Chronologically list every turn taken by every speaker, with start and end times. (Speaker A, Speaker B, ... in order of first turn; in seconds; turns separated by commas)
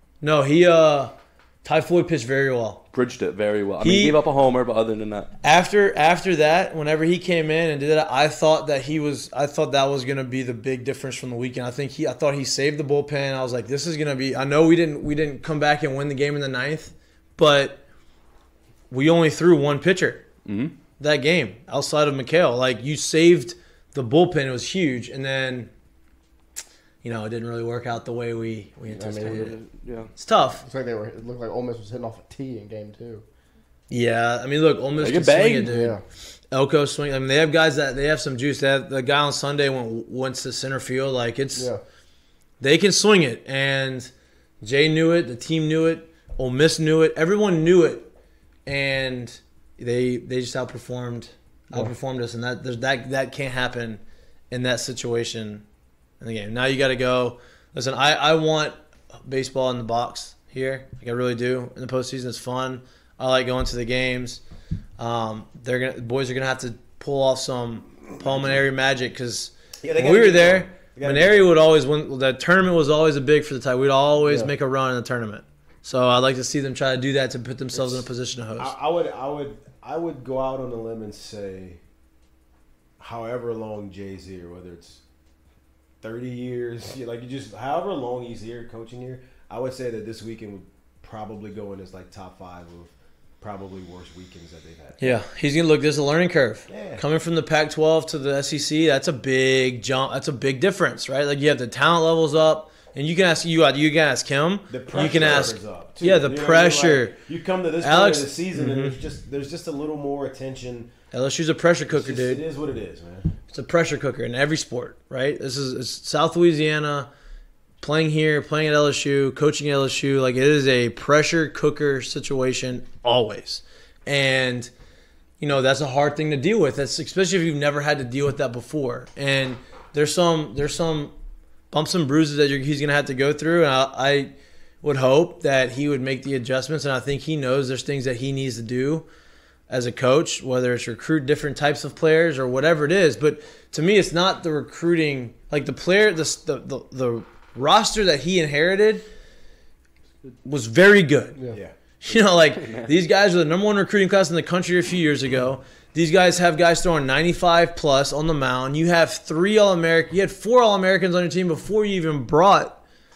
Speaker A: 0.2-1.1, Speaker A: 1.6-2.8, Speaker B: 2.9-5.3, Speaker A: 3.8-4.2, Speaker A: 5.4-17.8, Speaker A: 18.9-20.3, Speaker B: 20.4-20.7, Speaker A: 21.0-25.7, Speaker A: 27.0-29.6, Speaker C: 28.9-29.6, Speaker B: 29.3-30.1, Speaker A: 30.2-30.6, Speaker C: 30.6-33.2, Speaker A: 33.9-36.0, Speaker B: 35.0-35.7, Speaker C: 35.7-36.0, Speaker A: 36.5-41.7, Speaker A: 42.6-48.1, Speaker A: 48.7-55.6, Speaker A: 56.2-64.4, Speaker A: 65.0-78.7, Speaker D: 69.8-71.5, Speaker C: 74.3-74.5, Speaker D: 77.7-78.1, Speaker D: 78.6-81.8, Speaker D: 83.0-85.0, Speaker D: 86.0-95.2, Speaker A: 95.0-107.2, Speaker D: 96.7-97.0, Speaker D: 104.7-110.9, Speaker A: 107.8-109.0, Speaker A: 111.1-112.4, Speaker D: 111.9-113.3, Speaker A: 113.5-117.1, Speaker A: 117.8-124.7, Speaker A: 125.4-131.1, Speaker A: 131.7-139.1, Speaker A: 139.7-149.1, Speaker A: 150.4-151.4, Speaker A: 152.0-162.8, Speaker B: 152.4-152.9